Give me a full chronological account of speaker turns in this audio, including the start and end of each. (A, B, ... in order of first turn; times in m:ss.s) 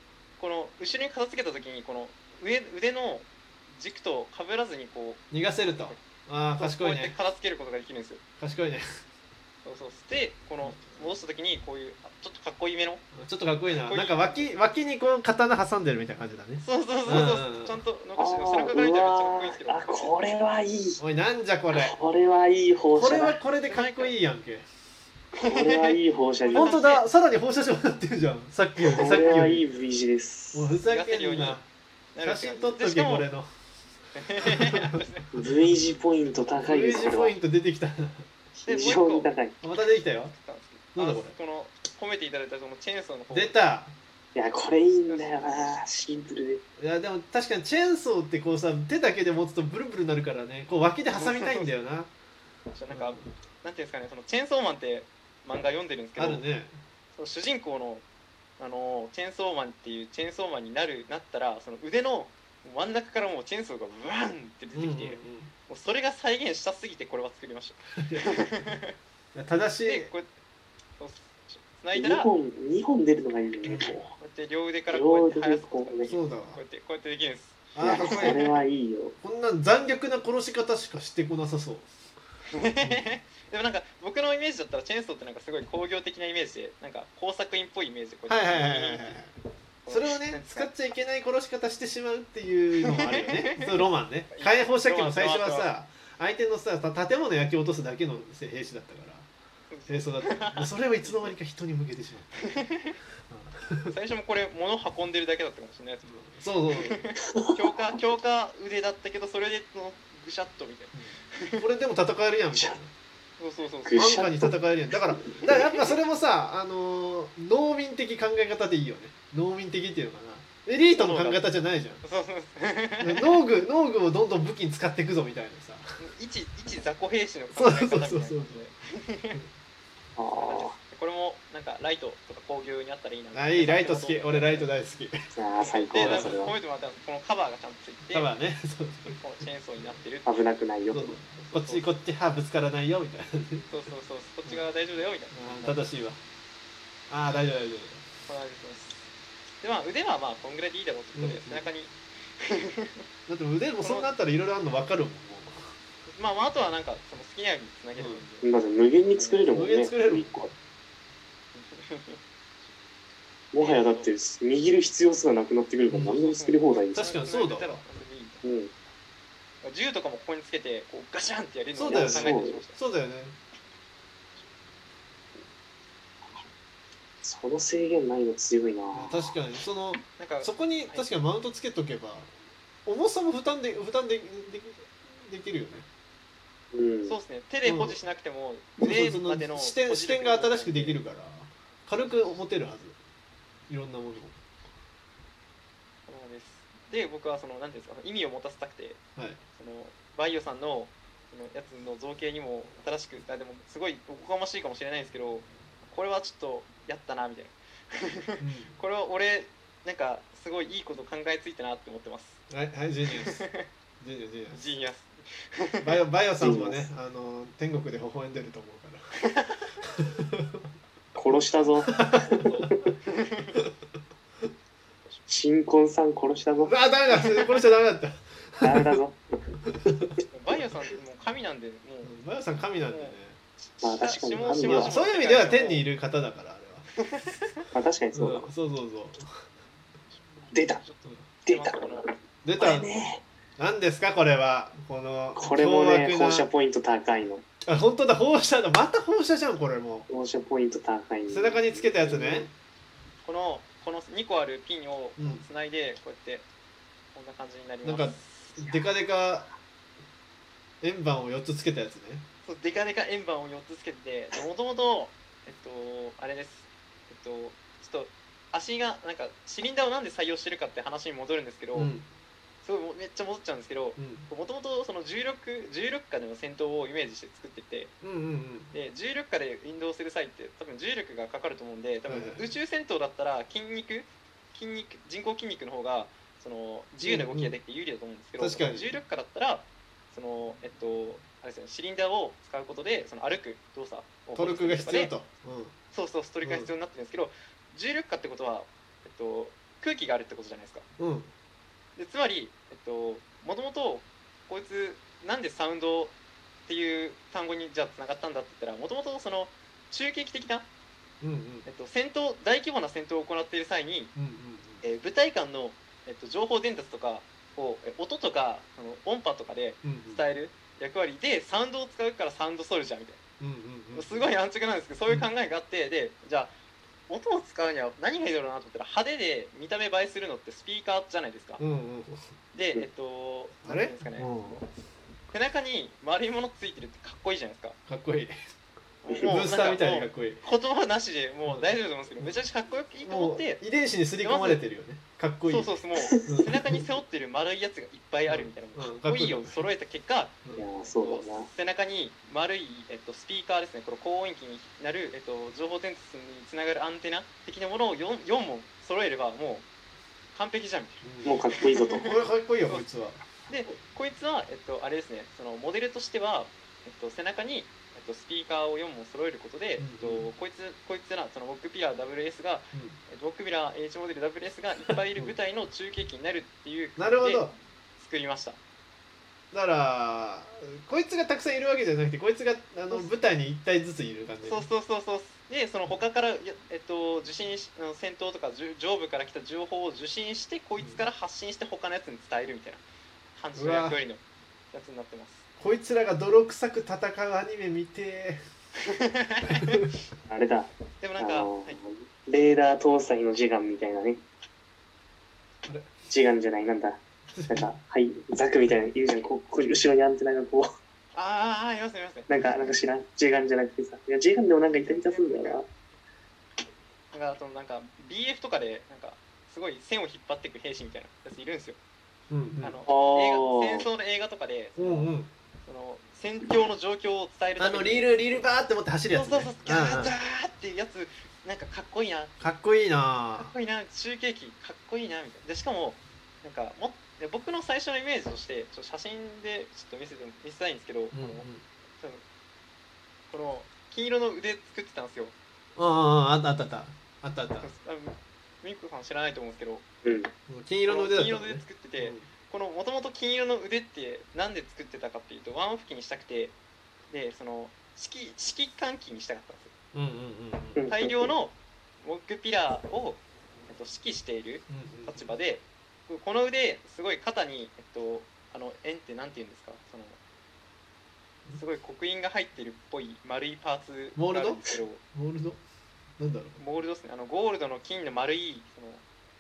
0:00.4-0:06.0 A
0:05.3-0:07.2 B
0:06.6-0:08.2 A
0:08.4-0:08.8 B
0:09.6-0:13.0 A
0:10.6-0:11.1 B
0:13.1-0:17.8 B
0:13.7-0:14.5 A
0:16.6-0:20.1 A
0:18.2-0:21.0 C
0:21.0-0:22.0 B
0:21.7-0:23.4 C
0:22.9-0:24.7 B
0:23.6-0:24.1 A
0:25.4-0:26.0 A
0:25.4-0:26.8 C
0:26.5-0:27.0 A
0:26.5-0:29.6 B
0:29.0-0:30.7 C
0:30.5-0:31.7 B
0:30.9-0:31.6 A
0:32.1-0:33.3 A
0:32.2-0:33.5 B
0:34.2-0:35.3 A
0:34.4-0:35.0 B
0:35.3-0:37.4 C
0:36.6-0:38.3 B
0:38.6-0:39.6 C
0:38.7-0:39.3 A
0:39.6-0:40.3 B
0:40.2-0:43.6 A
0:41.0-0:41.4 B
0:43.3-0:44.0 B
0:44.4-0:46.6 C
0:45.1-0:45.6 A
0:46.8-0:52.1 B
0:51.1-0:51.7 A
0:52.7-0:56.4 A
0:52.9-0:53.3 B
0:56.2-0:56.7 B
0:57.1-0:58.0 A
0:58.6-1:09.0 A
1:04.7-1:05.5 B
1:08.0-1:08.3 B
1:09.3-1:10.1 B
1:09.8-1:10.3 A
1:11.0-1:12.3 A
1:12.0-1:14.1 C
1:13.6-1:14.0 B
1:14.2-1:18.5 A
1:14.9-1:16.1 C
1:16.1-1:16.6 B
1:17.8-1:18.4 B
1:17.8-1:19.2 C
1:19.2-1:21.9 B
1:22.5-1:29.2 A
1:22.8-1:23.1 B
1:28.3-1:29.3 B
1:29.8-1:30.7 A
1:29.9-1:39.3 B
1:32.8-1:33.7 A
1:34.3-1:35.7 A
1:39.7-1:41.4 A
1:39.9-1:42.6 B
1:42.4-1:43.0 A
1:43.3-1:43.9 B
1:43.9-1:46.1 A
1:46.0-1:47.0 B
1:46.8-1:51.6 A
1:50.9-1:52.9 B
1:53.4-1:54.2 A
1:53.8-1:55.6 C
1:54.0-2:02.0 B
2:00.9-2:01.4 A
2:02.0-2:03.4 A
2:03.0-2:05.8 B
2:06.0-2:09.4 A
2:07.5-2:08.6 B
2:10.2-2:10.8 C
2:10.3-2:14.7 A
2:13.3-2:15.3 B
2:15.4-2:16.6 C
2:15.6-2:18.3 A
2:16.0-2:16.4 B
2:18.1-2:19.2 B
2:19.1-2:20.4 A
2:19.8-2:20.0 B
2:20.2-2:21.2 C
2:20.9-2:23.8 B
2:21.5-2:21.9 A
2:23.7-2:25.8 A
2:25.3-2:26.2 B
2:27.1-2:28.0 B
2:28.3-2:29.0 A
2:29.6-2:33.0 A
2:31.2-2:31.7 B
2:33.3-2:35.7 B
2:33.8-2:34.1 A
2:36.2-2:38.5 A
2:38.0-2:38.3 B
2:38.4-2:40.5 C
2:39.1-2:39.6 A
2:39.5-2:40.5 B
2:41.5-2:42.7 A
2:43.5-2:47.1 C
2:43.6-2:44.1 A
2:45.9-2:46.2 B
2:46.1-2:48.4 A
2:46.9-2:47.8 B
2:48.4-2:48.7 C
2:49.6-2:52.8 A
2:51.7-2:53.4 B
2:51.9-2:52.6 C
2:57.2-2:59.3 C
2:58.9-3:02.3 B
3:00.2-3:01.1 A
3:02.9-3:05.9 B
3:06.7-3:07.2 C
3:07.1-3:11.0 A
3:07.6-3:08.0 B
3:08.8-3:13.0 B
3:13.7-3:14.4 B
3:16.1-3:19.0 A
3:19.6-3:32.4 A
3:28.4-3:28.7 B
3:32.5-3:33.4 B
3:33.1-3:33.7 A
3:34.0-3:34.7 B
3:34.5-3:36.0 A
3:35.8-3:39.0 B
3:36.4-3:36.9 C
3:39.2-3:39.8 A
3:40.0-3:40.6 B
3:41.2-3:42.0 C
3:41.9-3:42.4 B
3:42.0-3:43.6 A
3:45.3-3:46.7 C
3:46.6-3:49.0 B
3:47.1-3:47.6 A
3:48.6-3:49.6 C
3:49.8-3:50.1 B
3:50.3-3:52.1 A
3:52.0-3:53.4 B
3:52.9-3:55.9 A
3:53.8-3:55.0 C
3:54.6-3:56.9 B
3:57.0-3:57.6 A
3:57.7-3:58.5 C
3:58.1-3:59.2 B
4:00.1-4:02.1 A
4:00.5-4:00.8 C
4:01.5-4:02.0 C
4:02.4-4:02.9 B
4:02.6-4:03.2 C
4:03.6-4:06.5 B
4:05.4-4:07.4 C
4:07.6-4:10.1 B
4:10.1-4:12.5 C
4:11.3-4:12.5 B
4:13.2-4:16.5 A
4:15.2-4:15.4 B
4:17.1-4:18.6 A
4:17.8-4:19.5 B
4:20.8-4:22.2 B
4:22.4-4:31.9 A
4:31.7-4:32.1 B
4:32.6-4:38.0 A
4:34.0-4:34.3 B
4:38.0-4:38.7 B
4:38.7-4:55.1 A
4:42.1-4:42.5 B
4:47.0-4:47.6 B
4:48.4-4:49.0 B
4:54.4-4:55.7 B
4:55.9-5:00.9 A
4:56.4-4:56.7 B
5:01.0-5:01.3 B
5:02.0-5:10.7 A
5:11.2-5:11.7 B
5:11.6-5:14.1 A
5:14.2-5:14.8 B
5:14.8-5:23.2 A
5:19.8-5:20.2 B
5:23.4-5:24.3 B
5:23.9-5:26.5 A
5:27.1-5:31.6 A
5:31.6-5:32.2 B
5:32.5-5:34.6 A
5:33.6-5:34.6 B
5:35.3-5:37.8 A
5:37.9-5:38.3 B
5:39.0-5:43.6 A
5:39.2-5:40.4 B
5:41.5-5:42.4 B
5:43.0-5:45.7 B
5:44.2-5:44.6 A
5:45.5-5:59.7 A
5:46.0-5:46.4 C
5:46.3-5:46.6 B
5:48.3-5:49.7 B
5:50.6-5:51.5 C
6:00.3-6:01.1 A
6:01.0-6:01.4 B
6:01.2-6:02.1 C
6:01.7-6:02.1 A
6:02.0-6:03.2 B
6:03.5-6:18.6 A
6:09.8-6:10.3 B
6:14.9-6:15.3 B
6:17.0-6:17.5 B
6:19.5-6:24.7 B
6:24.4-6:35.4 A
6:33.6-6:34.0 B
6:35.6-6:38.4 B
6:38.9-6:39.9 A
6:40.3-6:44.2 C
6:41.0-6:41.8 A
6:45.7-6:45.9 B
6:46.1-6:50.7 C
6:47.3-6:47.7 B
6:51.1-6:52.3 A
6:52.3-6:55.7 C
6:54.8-6:55.6 A
6:57.1-7:01.8 A
7:02.3-7:02.8 B
7:02.6-7:05.1 A
7:02.9-7:03.9 C
7:04.8-7:05.3 B
7:05.6-7:08.2 A
7:07.6-7:10.2 B
7:09.1-7:12.3 A
7:12.4-7:13.5 B
7:13.4-7:21.5 A
7:21.1-7:21.6 B
7:22.0-7:22.2 A
7:23.3-7:25.4 A
7:25.8-7:27.7 B
7:27.6-7:29.8 A
7:30.0-7:30.3 C
7:30.5-7:32.3 B
7:30.9-7:36.6 A
7:37.1-7:39.7 A
7:39.9-7:40.8 B
7:40.8-7:41.3 C
7:40.9-7:50.2 A
7:44.7-7:45.3 B
7:51.5-7:55.0 A
7:54.2-7:54.6 B
7:55.1-7:55.6 B
7:56.2-7:56.6 B
7:56.6-7:59.0 A